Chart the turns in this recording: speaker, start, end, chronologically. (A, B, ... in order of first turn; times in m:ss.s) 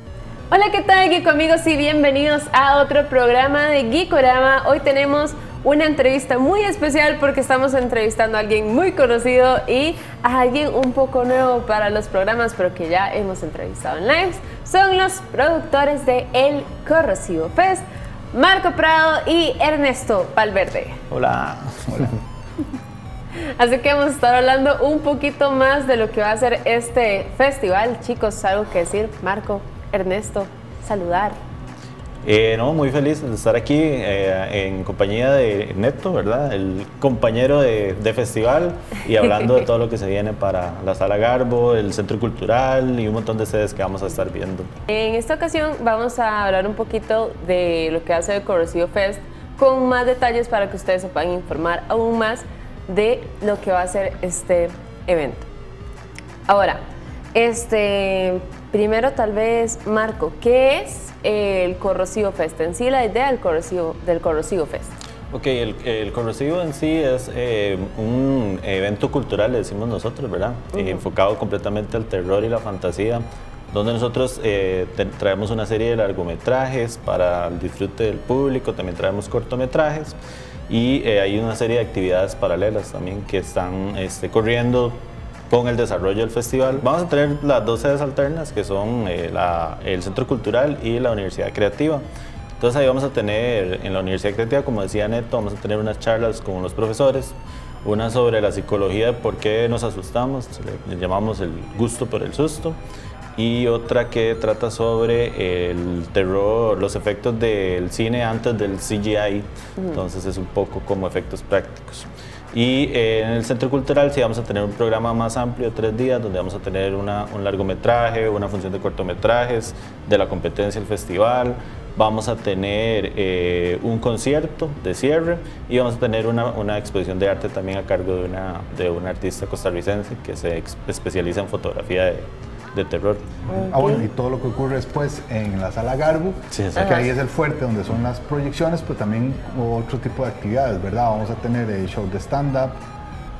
0:00.5-0:21.0 A
0:21.1-0:22.2 B
0:23.4-0:31.4 A
0:32.2-0:44.7 B
0:44.9-0:55.5 A
0:56.5-0:56.8 A
0:57.3-1:05.0 A
1:05.3-1:20.2 B
1:10.7-1:11.0 A
1:20.7-1:32.0 B
1:32.6-1:42.8 B
1:43.4-2:13.5 B
2:13.5-2:14.0 A
2:13.5-2:22.8 C
2:16.5-2:17.0 B
2:16.8-2:17.1 A